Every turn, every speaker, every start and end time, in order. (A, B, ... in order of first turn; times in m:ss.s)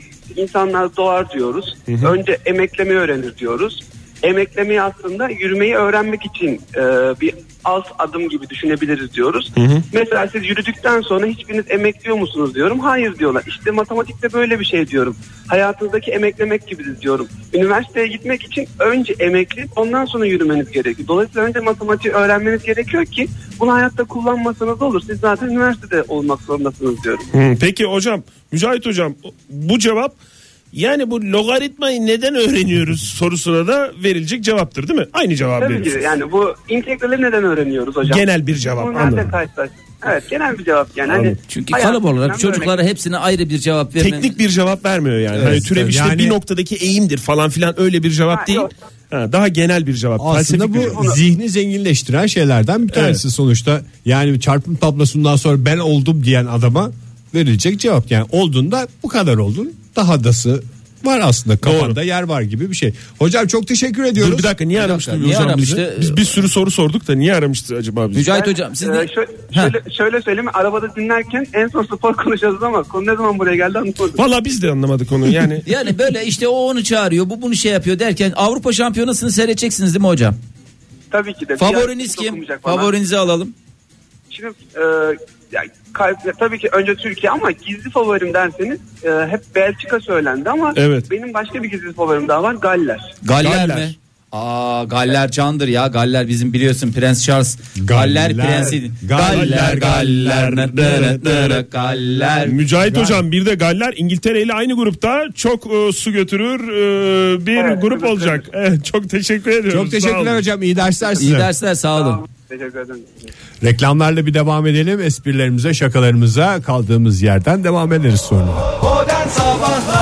0:00.3-0:27.3 A
0:01.9-0:02.1 B
0:09.6-0:09.8 B
0:27.3-0:30.2 B
0:30.7-0:36.0 B
0:35.6-0:42.8 A
0:38.0-0:39.3 B
0:41.1-0:41.4 B
0:41.5-0:44.3 C
0:44.0-0:51.0 B
0:45.4-0:46.4 D
0:48.3-0:48.7 A
0:50.2-1:04.5 D
0:50.8-0:51.2 A
0:52.9-0:53.2 B
1:01.6-1:02.0 B
1:04.2-1:08.3 B
1:04.8-1:06.3 C
1:08.1-1:09.8 C
1:08.3-1:14.2 A
1:14.2-1:15.6 B
1:15.6-1:20.4 C
1:21.1-1:22.9 A
1:21.6-1:23.5 C
1:24.3-1:33.1 A
1:30.7-1:31.1 B
1:33.2-1:42.6 C
1:33.4-1:33.9 B
1:37.8-1:40.0 D
1:39.2-1:41.6 B
1:42.4-1:50.4 B
1:42.9-1:43.2 D
1:47.5-1:48.4 A
1:49.7-1:51.5 D
1:51.2-1:52.2 C
1:52.0-1:53.2 A
1:53.6-1:58.7 D